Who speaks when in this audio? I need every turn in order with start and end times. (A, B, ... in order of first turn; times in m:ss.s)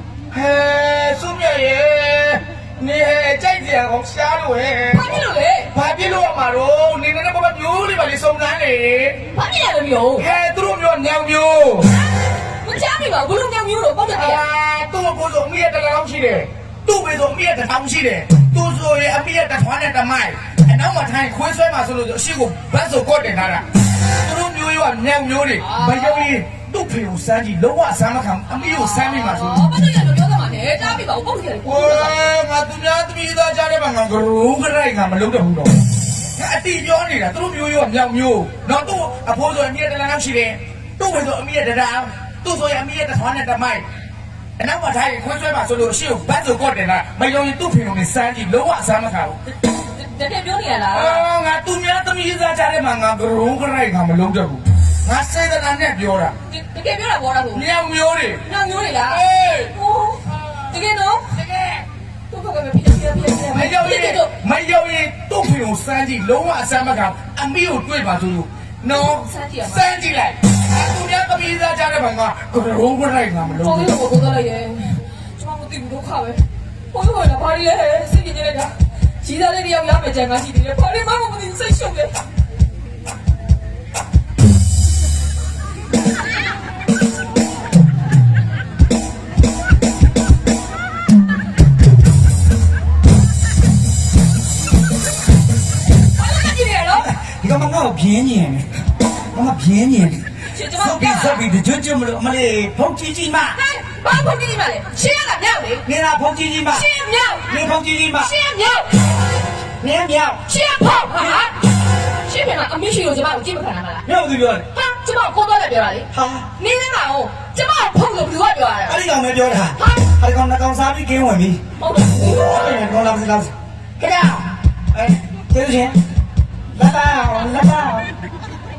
0:00.3-0:09.2 A
0:04.9-0:05.7 B
0:09.3-0:10.3 B
0:10.2-0:11.9 A
0:12.6-0:14.4 B
0:14.1-0:29.7 A
0:25.6-0:26.3 B
0:28.6-0:32.2 B
0:31.6-0:35.8 A
0:36.4-0:43.8 A
0:44.6-0:49.4 A
0:49.8-0:51.2 B
0:50.9-0:56.4 A
0:56.5-0:57.7 B
0:57.5-0:58.4 A
0:58.4-1:01.3 B
0:59.0-0:59.8 A
1:01.3-1:01.9 A
1:02.3-1:04.3 B
1:03.5-1:13.9 A
1:08.9-1:09.9 B
1:13.6-1:22.2 B
1:36.2-1:37.1 B
1:37.0-1:38.7 C
1:39.3-1:43.6 C
1:40.5-1:41.4 B
1:43.6-1:45.8 B
1:45.8-1:46.9 C
1:46.7-1:49.2 B
1:47.4-1:48.3 C
1:49.8-1:50.4 C
1:50.5-1:54.1 B
1:54.1-1:54.7 C
1:54.7-1:59.0 B
1:56.1-1:56.5 C
1:58.9-2:03.5 C
1:59.8-2:00.1 B
2:01.8-2:02.4 B
2:04.0-2:04.4 A
2:04.9-2:06.0 C
2:06.8-2:08.1 C